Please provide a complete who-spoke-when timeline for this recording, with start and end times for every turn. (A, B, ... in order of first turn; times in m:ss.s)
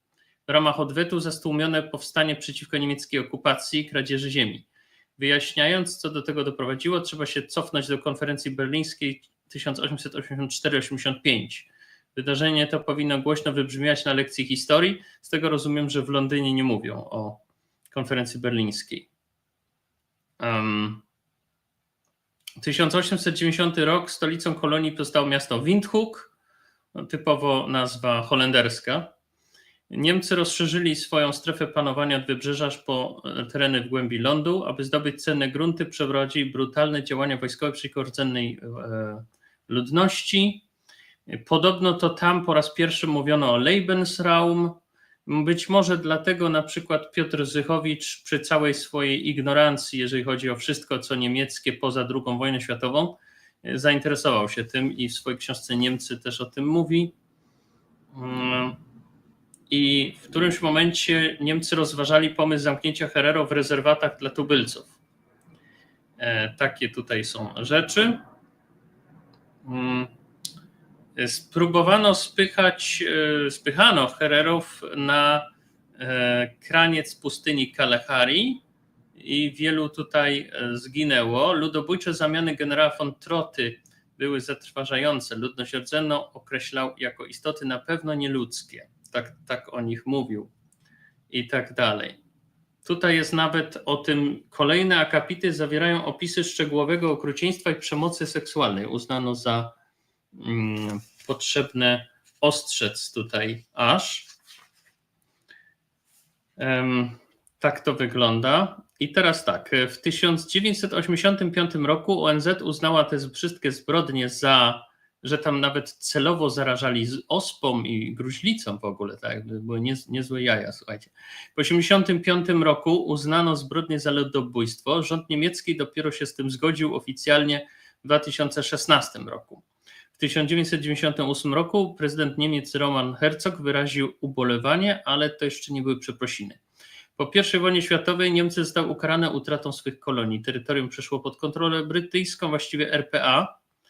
0:00.5-0:19.1 A
0:20.4-0:21.0 A
0:22.6-0:26.3 A
0:27.0-0:29.1 A
0:29.9-0:40.6 A
0:41.3-0:57.1 A
0:58.1-0:58.8 A
0:59.7-1:05.0 A
1:06.2-1:08.2 A
1:09.6-1:10.1 A
1:11.2-1:15.5 A
1:16.0-1:18.6 A
1:19.2-1:30.5 A
1:31.3-1:32.2 A
1:32.8-1:39.7 A
1:40.4-1:44.3 A
1:46.6-2:09.6 A
2:10.2-2:16.6 A
2:17.2-2:23.6 A